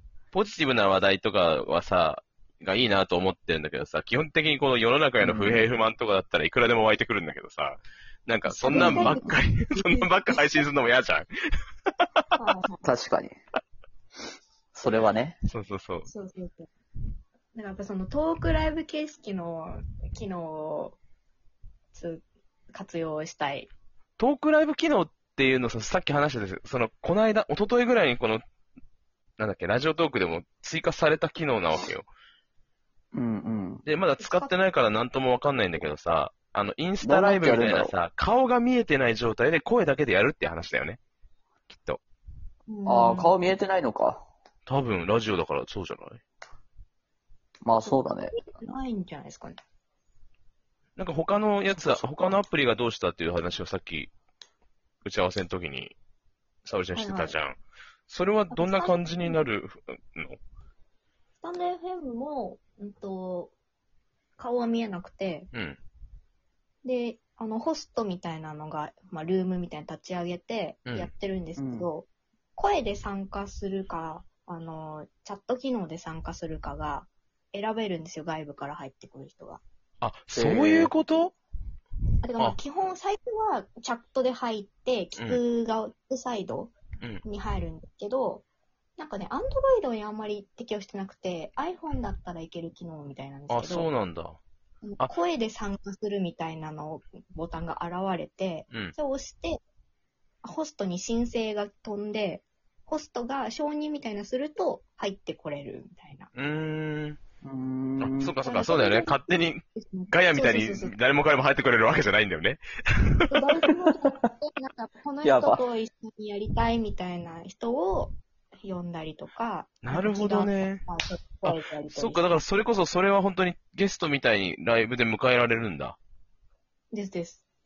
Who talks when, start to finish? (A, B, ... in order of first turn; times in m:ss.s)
0:00.3-0:11.3 A
0:05.2-0:05.6 B
0:08.5-0:10.4 C
0:08.7-0:09.2 B
0:12.4-0:12.8 C
0:12.8-0:13.4 B
0:14.8-0:15.4 B
0:15.5-0:16.1 A
0:16.1-0:16.7 C
0:17.5-0:21.0 C
0:21.9-0:23.7 C
0:24.2-0:28.4 A
0:29.4-0:32.1 A
0:33.1-0:33.8 B
0:33.8-0:41.0 A
0:34.2-0:34.5 C
0:37.0-0:38.0 B
0:41.7-0:42.0 A
0:42.7-0:43.6 C
0:42.9-0:44.2 B
0:44.7-0:46.2 A
0:47.6-0:48.3 B
0:47.8-0:49.6 C
0:51.0-0:54.1 A
0:51.8-0:52.1 B
0:55.0-0:56.0 A
0:56.6-1:00.4 A
0:57.0-0:57.3 C
0:58.5-0:59.4 C
1:01.4-1:03.5 C
1:04.4-1:05.5 C
1:05.5-1:05.8 A
1:06.8-1:19.6 C
1:10.9-1:11.1 A
1:11.6-1:11.9 B
1:20.0-1:21.3 A
1:20.3-1:20.9 B
1:22.2-1:28.4 C
1:29.0-1:33.9 C
1:33.5-1:34.4 A
1:34.8-1:39.6 C
1:40.4-1:46.3 C
1:46.3-1:47.2 A
1:47.4-1:48.3 B
1:48.0-1:52.6 A
1:48.4-1:51.0 C
1:53.3-2:02.3 C
1:55.2-1:55.6 B
1:59.8-2:00.8 A
2:01.4-2:06.0 A
2:06.9-2:07.4 C